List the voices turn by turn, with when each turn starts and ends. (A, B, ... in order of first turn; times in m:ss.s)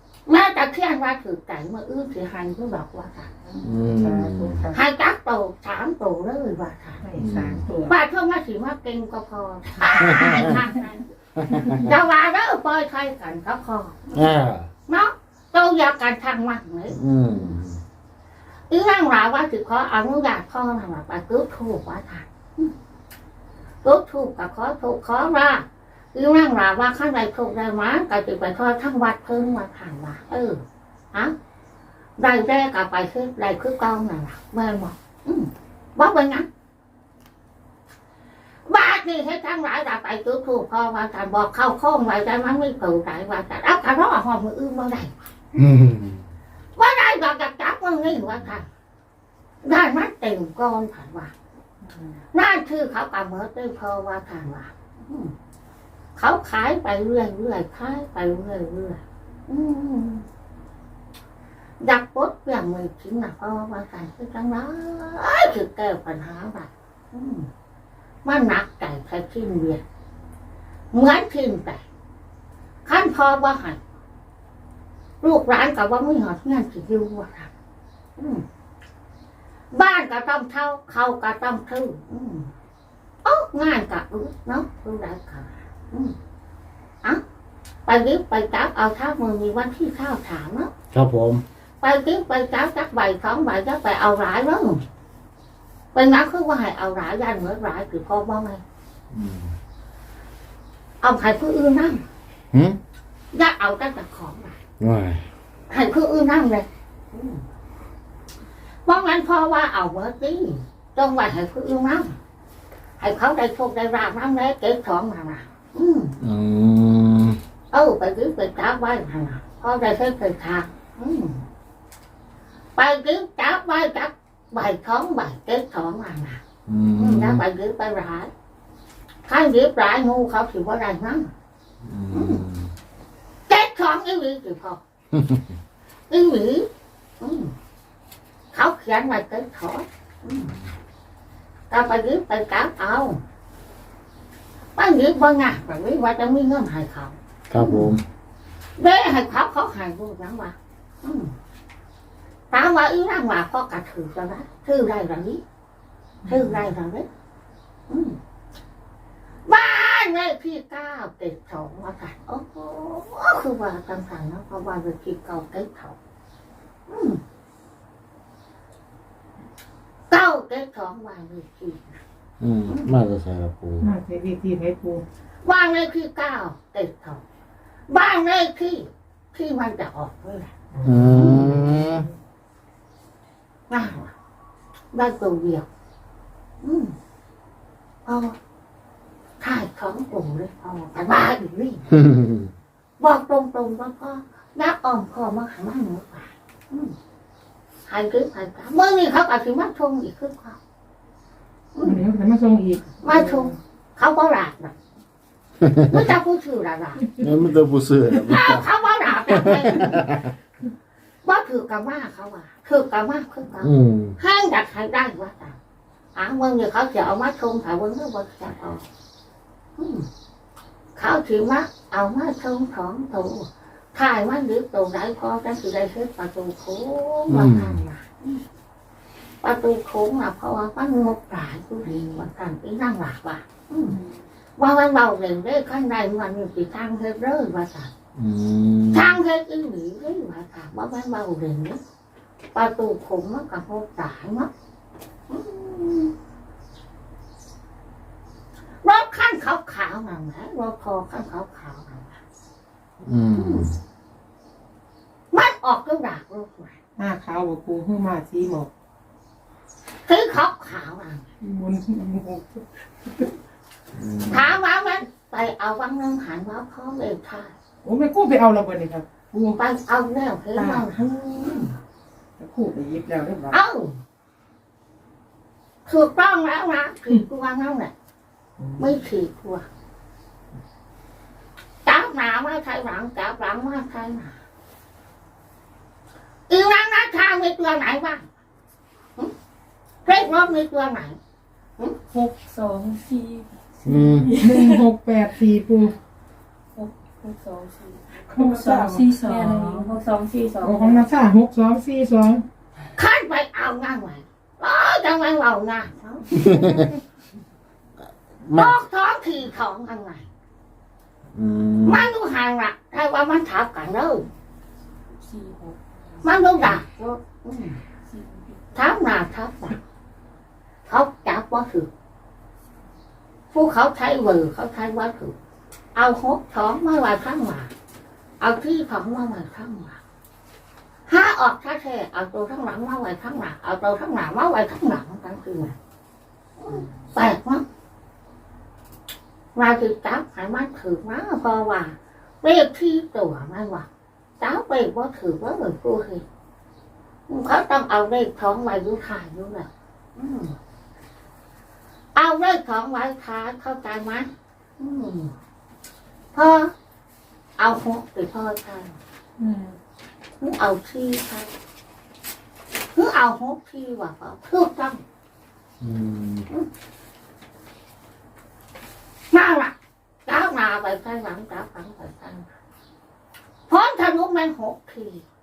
0:00.2-0:03.7 A
0:03.6-0:04.6 B
0:03.9-0:04.8 C
0:04.7-0:07.0 A
0:07.0-0:07.9 C
0:07.2-0:07.6 B
0:07.8-0:11.0 A
0:10.0-0:10.6 B
0:11.4-0:11.9 B
0:11.6-0:14.3 A
0:14.1-0:14.7 B
0:14.9-0:17.0 A
0:16.9-0:17.8 B
0:18.7-0:22.7 A
0:23.8-0:30.6 A
0:32.2-0:36.5 A
0:38.7-0:45.1 A
0:45.5-0:46.2 B
0:46.8-0:48.7 A
0:49.6-0:51.3 A
0:52.3-0:55.3 A
0:56.2-1:00.2 A
1:01.8-1:07.5 A
1:08.2-1:09.8 A
1:10.9-1:11.8 A
1:12.8-1:13.8 A
1:15.2-1:17.5 A
1:18.2-1:18.4 A
1:19.7-1:22.5 A
1:23.2-1:26.1 A
1:27.8-1:30.7 A
1:30.9-1:31.4 B
1:31.8-1:34.8 A
1:35.9-1:38.6 A
1:39.1-1:39.5 B
1:41.0-1:42.0 A
1:42.5-1:42.8 B
1:43.3-1:44.6 A
1:44.8-1:45.2 B
1:45.7-1:47.4 A
1:48.8-1:52.1 A
1:53.0-1:56.2 A
1:56.2-1:57.4 B
1:57.7-2:01.4 A
2:02.8-2:06.4 A
2:06.7-2:07.4 B
2:07.0-2:08.3 A
2:09.2-2:11.3 A
2:11.8-2:12.7 B
2:12.1-2:12.4 A
2:13.5-2:14.8 A
2:15.1-2:15.4 B
2:16.1-2:16.7 A
2:17.2-2:17.5 A
2:18.5-2:20.5 A
2:21.7-2:23.2 A
2:24.8-2:27.9 A
2:27.5-2:28.0 B
2:28.8-2:31.3 A
2:32.5-2:35.4 A
2:36.2-2:36.6 C
2:36.3-2:37.1 A
2:37.9-2:38.2 A
2:39.5-2:46.0 A
2:46.9-2:47.2 A
2:50.1-2:52.0 A
2:52.4-2:53.9 B
2:53.8-2:55.0 C
2:55.4-2:57.2 A
2:57.9-3:00.5 A
3:00.7-3:02.1 C
3:00.8-3:02.1 B
3:01.1-3:01.4 A
3:03.7-3:04.1 A
3:04.9-3:05.7 A
3:06.6-3:06.9 A
3:08.0-3:08.4 A
3:09.4-3:11.9 A
3:12.1-3:12.5 B
3:13.0-3:16.9 A
3:17.9-3:20.6 A
3:21.7-3:22.0 A
3:21.8-3:23.5 C
3:23.0-3:24.8 A
3:25.8-3:27.1 A
3:27.2-3:28.6 B
3:28.2-3:30.0 A
3:29.3-3:30.3 B
3:31.2-3:35.6 A
3:33.6-3:34.2 B
3:36.1-3:38.8 A
3:39.8-3:40.1 A
3:41.0-3:48.4 A
3:47.3-3:47.8 B
3:49.4-3:54.0 A
3:54.6-3:57.9 A
3:58.2-3:59.2 B
3:58.9-4:01.8 A
4:02.5-4:04.5 A
4:05.3-4:06.1 A
4:08.8-4:12.2 A
4:13.0-4:13.8 B
4:13.3-4:13.7 A
4:15.3-4:16.7 A
4:17.0-4:18.7 C
4:20.0-4:21.2 A
4:21.4-4:22.6 C
4:23.9-4:24.5 B
4:24.3-4:27.5 A
4:27.8-4:29.6 C
4:29.5-4:31.7 A
4:30.5-4:31.1 C
4:32.4-4:33.6 C
4:33.5-4:34.0 A
4:35.8-4:37.9 A
4:38.6-4:39.0 C
4:38.8-4:39.6 A
4:41.8-4:44.3 A
4:46.5-4:48.2 A
4:50.0-4:51.2 A
4:52.1-4:54.8 D
4:53.8-4:54.3 B
4:54.4-4:55.9 C
4:56.8-5:01.0 D
4:58.3-4:59.1 C
5:00.6-5:02.4 C
5:03.0-5:06.8 A
5:06.3-5:06.9 B
5:08.4-5:08.7 B
5:08.5-5:10.2 A
5:11.3-5:12.1 B
5:11.8-5:14.2 A
5:15.3-5:15.8 D
5:16.2-5:17.8 A
5:18.7-5:19.8 A
5:20.9-5:21.9 A
5:23.5-5:25.3 A
5:25.9-5:27.7 A
5:28.4-5:30.0 A
5:31.1-5:35.7 A
5:36.6-5:37.6 A
5:39.5-5:43.8 A
5:44.4-5:46.2 A
5:47.3-5:50.6 A
5:52.1-5:55.3 A
5:56.3-5:56.7 A
5:57.6-5:58.9 A
6:00.4-6:01.5 A
6:02.9-6:05.0 A
6:05.8-6:06.4 B
6:09.3-6:09.7 A
6:10.2-6:12.4 A
6:13.7-6:15.2 A